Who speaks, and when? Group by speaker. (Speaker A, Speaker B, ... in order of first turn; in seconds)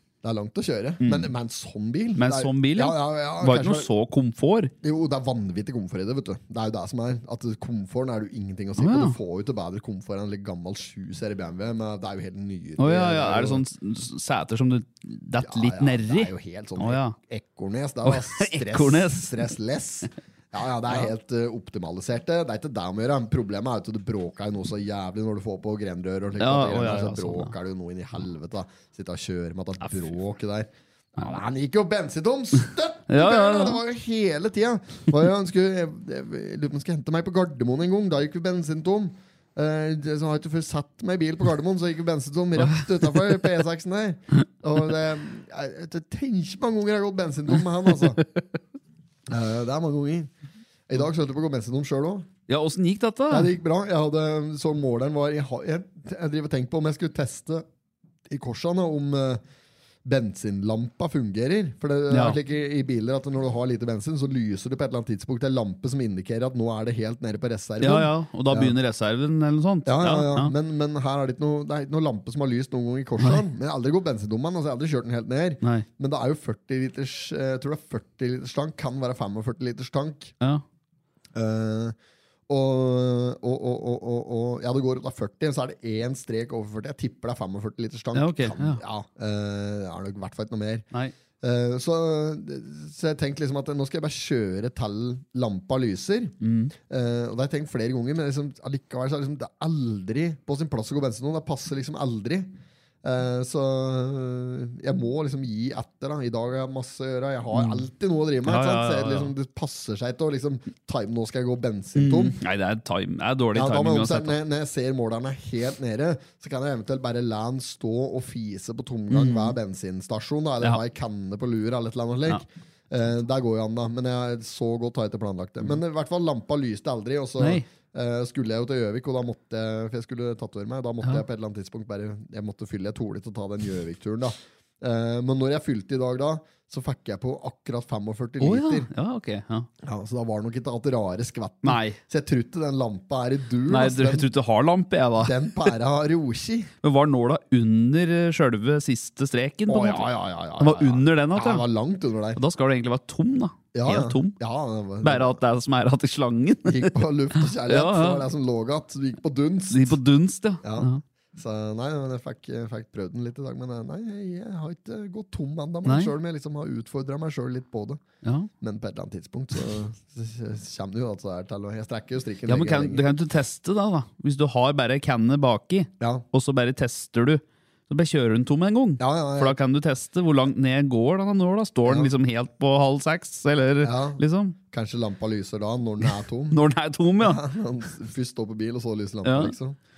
Speaker A: 0.2-3.9, 4.8-13.6, 15.4-48.2, 49.3-50.3, 50.9-52.3, 53.3-57.6, 58.3-59.4, 60.0-68.7, 69.8-80.3, 81.3-82.0, 82.5-90.8, 91.4-102.5, 103.0-112.3, 113.5-138.9, 139.8-144.3, 145.2-146.7, 149.7-152.4, 153.7-155.4, 156.7-160.0, 160.6-168.0, 168.6-173.1, 179.0-179.6, 181.8-182.1, 183.8-186.6, 187.2-189.8
Speaker B: 1.0-1.3, 2.2-4.7, 8.8-9.2, 12.8-17.1, 18.0-19.4, 26.4-27.5, 33.1-33.8, 52.5-53.5, 62.1-62.4, 67.8-70.5, 88.1-88.8, 96.4-96.7, 107.5-107.8, 108.4-109.3, 111.9-114.3, 119.1-119.5, 127.4-127.6, 138.4-139.7, 141.6-142.0, 143.7-145.7, 146.8-151.7, 152.3-154.4, 155.0-158.2, 159.7-161.0, 165.8-166.1, 168.2-168.5, 172.4-184.6, 186.5-187.4, 189.2-189.5